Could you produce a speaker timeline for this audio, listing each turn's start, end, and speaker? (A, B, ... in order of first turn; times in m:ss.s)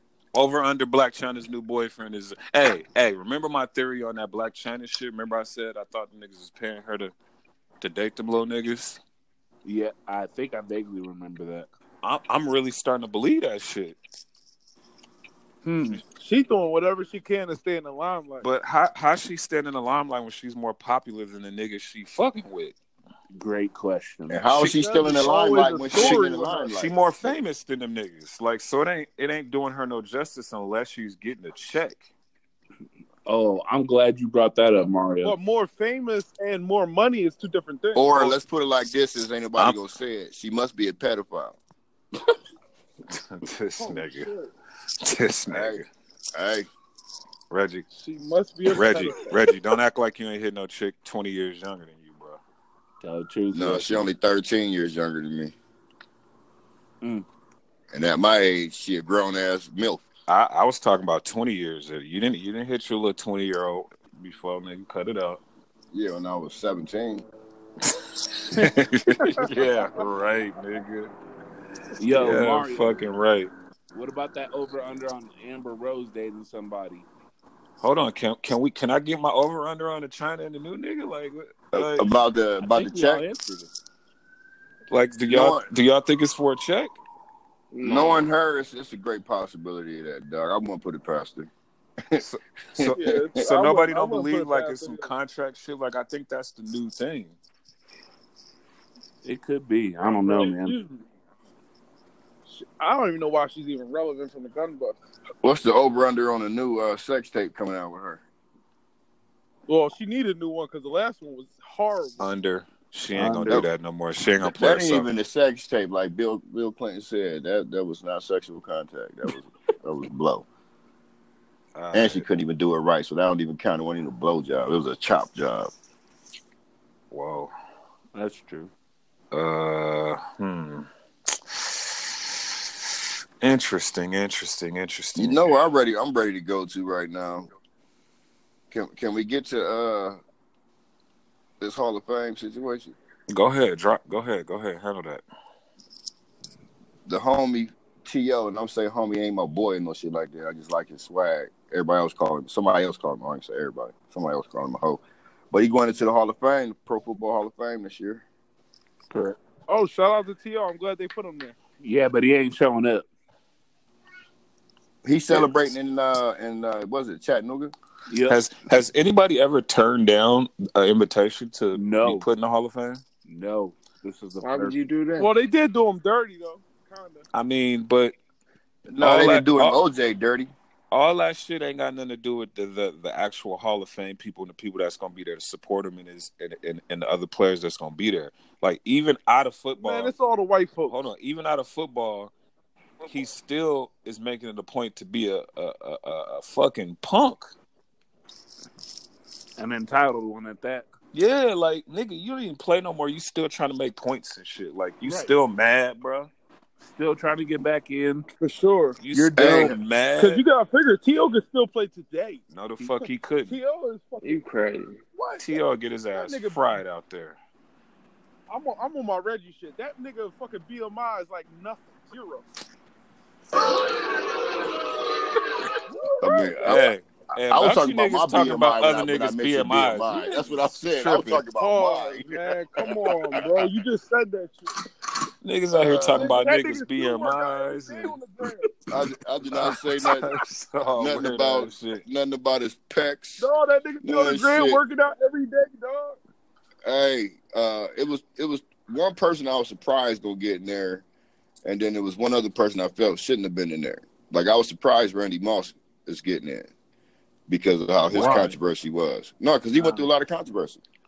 0:00.3-0:07.1 A
0:07.8-0:09.0 A
0:09.6-0:11.7 B
0:12.0-0:14.0 A
0:15.6-0:16.0 B
0:16.0-0:18.5 C
0:18.4-0:22.8 A
0:23.3-0:24.4 B
0:24.3-0:26.9 D
0:24.6-0:26.7 C
0:25.9-0:32.1 A
0:33.3-0:35.4 B
0:35.2-0:38.4 C
0:38.0-0:41.6 D
0:43.1-0:44.3 A
0:43.8-0:44.5 C
0:45.0-0:45.9 A
0:45.5-0:45.8 D
0:46.3-0:46.7 D
0:47.5-0:47.9 A
0:48.0-0:49.4 C
0:48.7-0:52.4 A
0:53.0-0:54.1 B
0:53.5-0:55.5 D
0:57.9-1:00.0 D
1:00.3-1:05.4 A
1:05.9-1:07.3 D
1:08.0-1:11.1 A
1:09.2-1:09.5 C
1:12.0-1:13.1 B
1:12.1-1:13.5 A
1:13.9-1:17.1 B
1:17.8-1:22.1 A
1:21.7-1:23.2 D
1:22.6-1:23.7 B
1:24.9-1:27.0 A
1:25.3-1:25.6 D
1:27.7-1:28.3 E
1:27.8-1:31.5 D
1:32.2-1:37.4 A
1:32.8-1:33.5 D
1:32.9-1:35.1 C
1:39.2-1:40.8 B
1:40.0-1:41.0 C
1:42.5-1:45.0 C
1:45.4-1:48.2 D
1:49.7-1:52.3 C
1:52.2-1:55.1 A
1:53.1-1:53.6 B
1:54.4-2:00.5 D
2:01.8-2:02.2 A
2:01.9-2:05.7 D
2:07.1-2:07.5 A
2:08.1-2:08.7 B
2:09.3-2:10.9 A
2:11.5-2:12.3 A
2:13.4-2:15.5 A
2:15.2-2:17.5 D
2:18.7-2:20.2 D
2:21.6-2:23.0 D
2:23.3-2:25.2 A
2:27.1-2:38.2 D
2:39.1-2:39.4 B
2:39.7-2:41.6 C
2:41.8-2:43.1 B
2:45.0-2:47.7 D
2:48.1-2:48.4 B
2:48.3-2:53.0 A
2:51.7-2:52.3 B
2:53.2-2:54.8 B
2:54.4-2:55.3 E
2:55.2-2:57.2 C
2:57.3-2:58.2 A
2:58.9-3:00.5 D
2:59.0-2:59.8 A
3:00.9-3:10.2 A
3:09.8-3:11.0 C
3:10.9-3:12.3 A
3:13.0-3:17.5 A
3:19.6-3:20.9 B
3:21.1-3:26.3 A
3:25.0-3:25.3 B
3:26.9-3:28.3 B
3:28.4-3:32.4 C
3:29.0-3:30.4 A
3:29.1-3:29.8 D
3:32.5-3:33.6 A
3:33.5-3:34.4 C
3:34.2-3:35.0 E
3:35.2-3:36.7 C
3:35.4-3:37.4 A
3:38.5-3:42.4 C
3:45.9-3:46.8 C
3:46.2-3:46.9 D
3:46.6-3:51.4 A
3:47.4-3:52.4 D
3:51.6-3:54.7 C
3:55.4-3:58.2 A
3:55.8-3:56.4 D
3:56.1-3:58.7 C
3:58.9-4:00.3 D
3:59.5-4:02.0 A
4:01.0-4:03.5 D
4:03.4-4:06.2 C
4:04.0-4:04.8 D
4:06.8-4:11.0 D
4:11.6-4:16.7 D
4:17.5-4:20.8 D
4:18.1-4:18.6 B
4:18.2-4:18.5 A
4:19.8-4:20.1 B